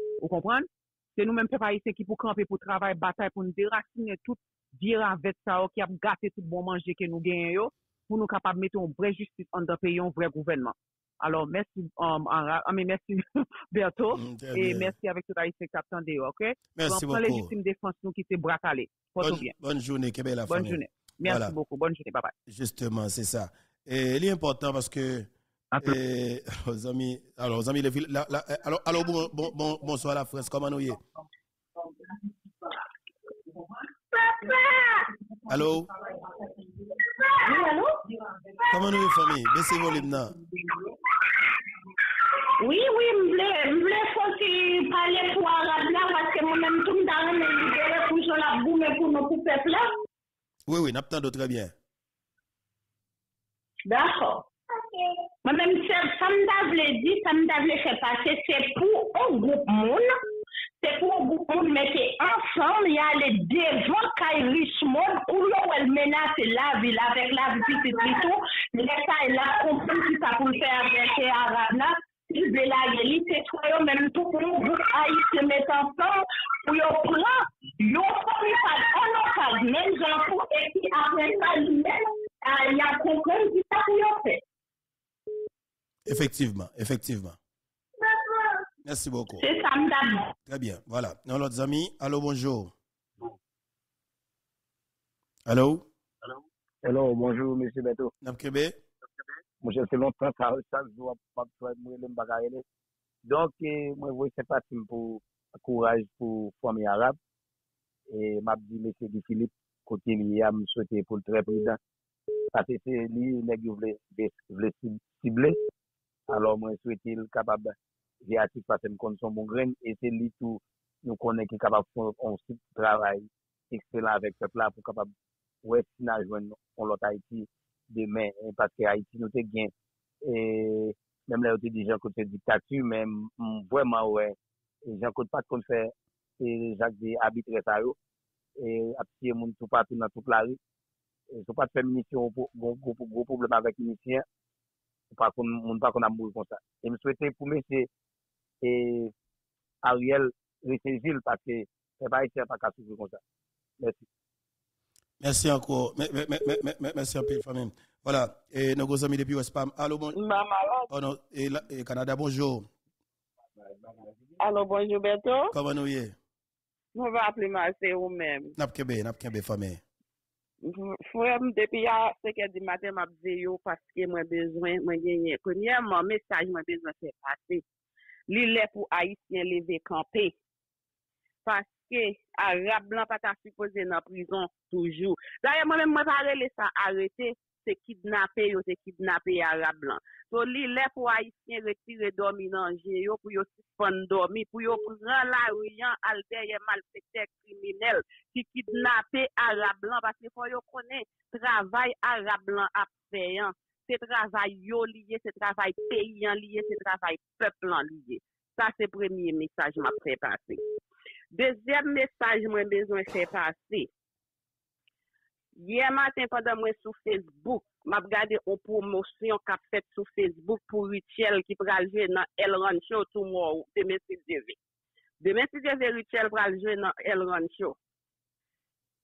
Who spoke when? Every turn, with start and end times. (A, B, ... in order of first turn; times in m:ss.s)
0:00.2-0:19.5 A
0:14.1-0:14.9 B
0:16.8-0:17.5 B
0:19.2-0:21.5 B
0:20.5-0:22.3 A
0:22.5-0:31.0 B
0:34.1-0:35.1 C
0:35.5-0:35.9 B
0:37.0-0:38.0 C
0:38.7-0:40.3 B
0:42.6-0:49.9 C
0:50.7-0:51.7 B
0:53.8-1:00.2 C
1:00.8-1:24.4 C
1:26.1-1:27.4 B
1:28.0-1:28.6 C
1:28.8-1:29.4 B
1:29.4-1:30.3 C
1:30.5-1:32.7 B
1:35.5-1:35.9 B
1:36.8-1:38.1 D
1:38.2-1:38.8 B
1:39.6-1:42.6 D
1:43.2-1:47.2 D
1:48.1-1:51.8 D
1:52.5-1:55.6 D
1:56.3-2:05.1 D
2:05.6-2:09.7 D
2:10.2-2:14.4 D
2:14.9-2:18.0 D
2:18.6-2:20.6 D
2:21.3-2:24.2 D
2:25.1-2:27.9 D
2:28.6-2:29.1 D
2:29.8-2:33.2 D
2:33.8-2:34.1 D
2:35.2-2:40.2 B
2:40.1-2:40.9 E
2:40.9-2:42.7 B
2:44.4-2:45.5 E
2:45.5-2:46.2 B
2:47.0-2:48.6 E
2:48.6-2:49.8 B
2:50.6-2:57.6 E
2:58.3-3:00.4 E
3:01.4-3:30.6 E
3:31.3-3:33.9 E
3:35.6-3:44.6 E
3:45.2-3:47.8 E